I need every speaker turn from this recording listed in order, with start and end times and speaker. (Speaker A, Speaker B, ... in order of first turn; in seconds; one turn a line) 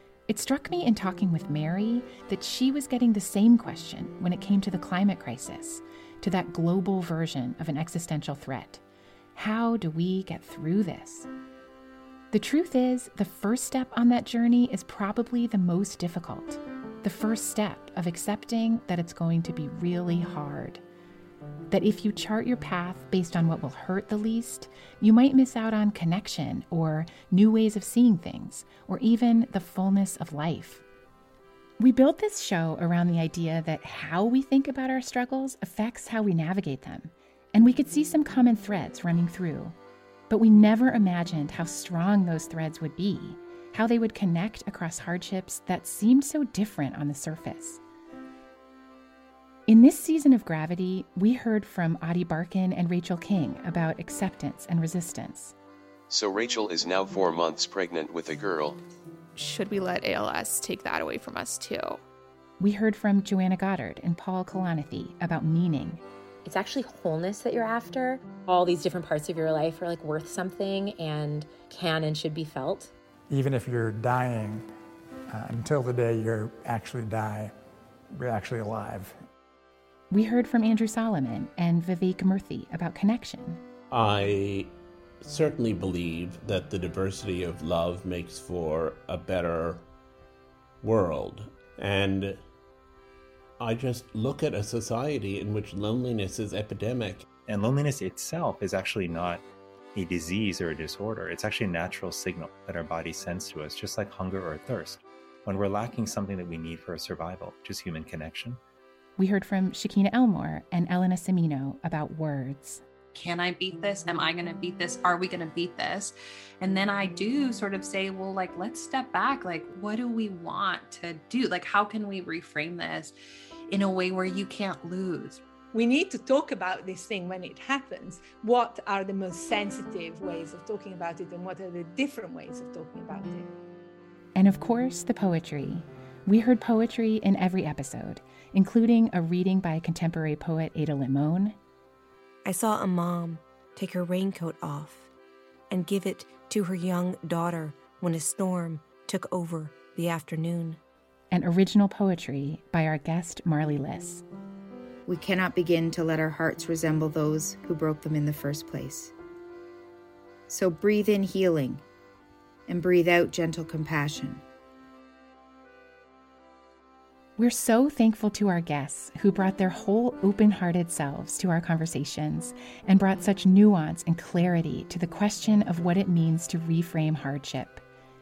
Speaker A: 0.3-8.8
Speaker A: 9.3-11.3
Speaker A: 12.3-20.8
Speaker A: 21.7-30.8
Speaker A: 31.8-39.8
Speaker A: 40.3-47.8
Speaker A: 49.7-55.5
Speaker B: 56.1-58.8
Speaker C: 59.4-62.0
Speaker A: 62.6-66.0
Speaker D: 66.4-72.9
Speaker E: 73.3-74.7
Speaker E: 75.3-77.5
Speaker E: 78.2-79.2
Speaker A: 80.1-83.6
Speaker F: 83.9-89.9
Speaker F: 90.8-92.5
Speaker F: 93.6-97.3
Speaker G: 97.4-99.4
Speaker G: 99.9-108.6
Speaker A: 109.2-112.8
Speaker H: 113.1-123.1
Speaker H: 123.7-125.4
Speaker I: 125.7-133.5
Speaker A: 134.3-141.6
Speaker J: 142.4-145.1
Speaker J: 145.7-150.8
Speaker A: 151.3-154.2
Speaker K: 155.1-159.1
Speaker K: 160.5-161.8
Speaker K: 162.7-164.4
Speaker A: 167.4-177.8